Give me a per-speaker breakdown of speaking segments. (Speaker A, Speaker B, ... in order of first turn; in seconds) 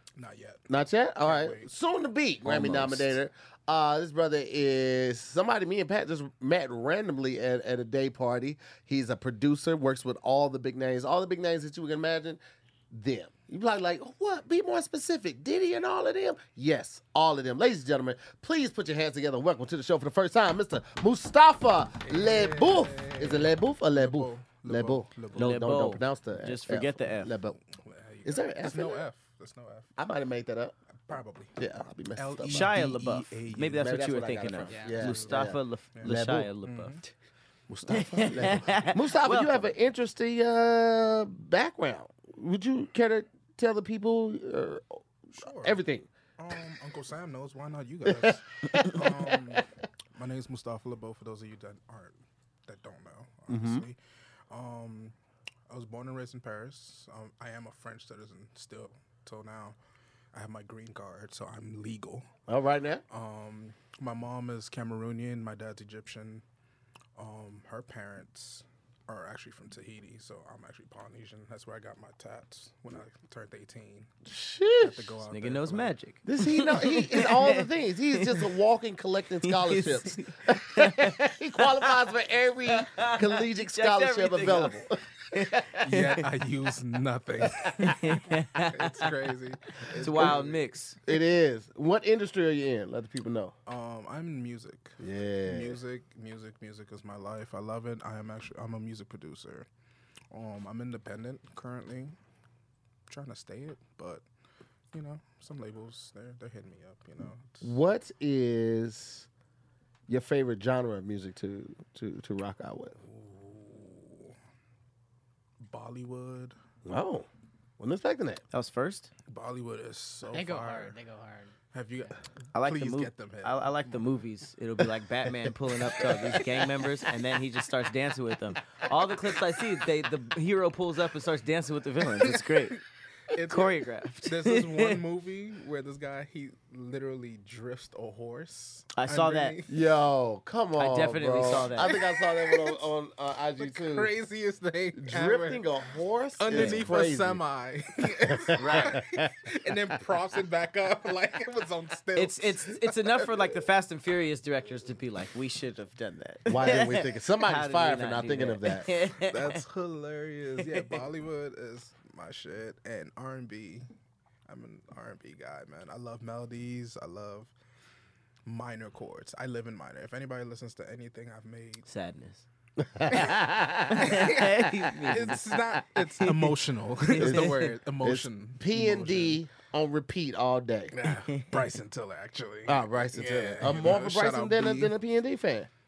Speaker A: 0.1-1.7, 2.5-2.8, 22.0-25.7, 27.6-29.9, 31.1-31.5, 32.1-34.2, 35.0-37.0, 45.3-45.8, 46.4-54.0, 54.5-55.1, 55.7-59.8, 60.3-62.3, 63.1-66.4, 67.2-74.1, 74.8-76.0, 85.8-90.6, 93.7-99.7, 100.3-102.2, 103.1-104.2, 104.9-107.8, 113.0-114.3, 115.6-116.5, 119.3-121.0, 121.7-124.0, 126.0-126.4, 132.2-132.7, 133.3-139.7, 141.8-142.9, 143.6-145.7, 146.4-152.9, 159.2-163.8, 164.5-167.5, 168.4-171.8, 174.0-174.5, 175.1-179.4, 181.0-184.9
Speaker B: 0.7-27.6, 28.2-29.0, 30.0-30.7, 31.6-32.7, 33.8-36.5, 37.7-46.1, 48.0-49.6, 53.5-53.9, 62.5-63.0, 74.3-75.1, 76.2-85.9, 87.4-87.7, 90.0-90.4, 91.0-93.5, 95.0-95.8, 107.6-109.3, 110.1-113.0, 116.8-117.3, 117.8-118.4, 139.7-144.1, 144.9-147.4, 148.2-149.4, 156.5-158.9, 172.8-175.1, 177.2-181.1, 182.7-185.7
Speaker C: 2.5-3.1, 25.3-27.4, 32.4-37.1, 37.9-39.7, 75.3-78.5, 79.4-81.9, 82.7-84.8, 85.3-86.2, 87.8-89.2, 90.0-91.0, 118.5-119.1, 122.5-132.8, 133.4-135.0, 138.9-139.6, 140.8-142.0, 146.5-146.9, 148.6-149.0, 152.2-159.6, 171.8-172.4, 173.9-175.6, 177.1-177.6
Speaker D: 34.7-35.2, 120.3-122.1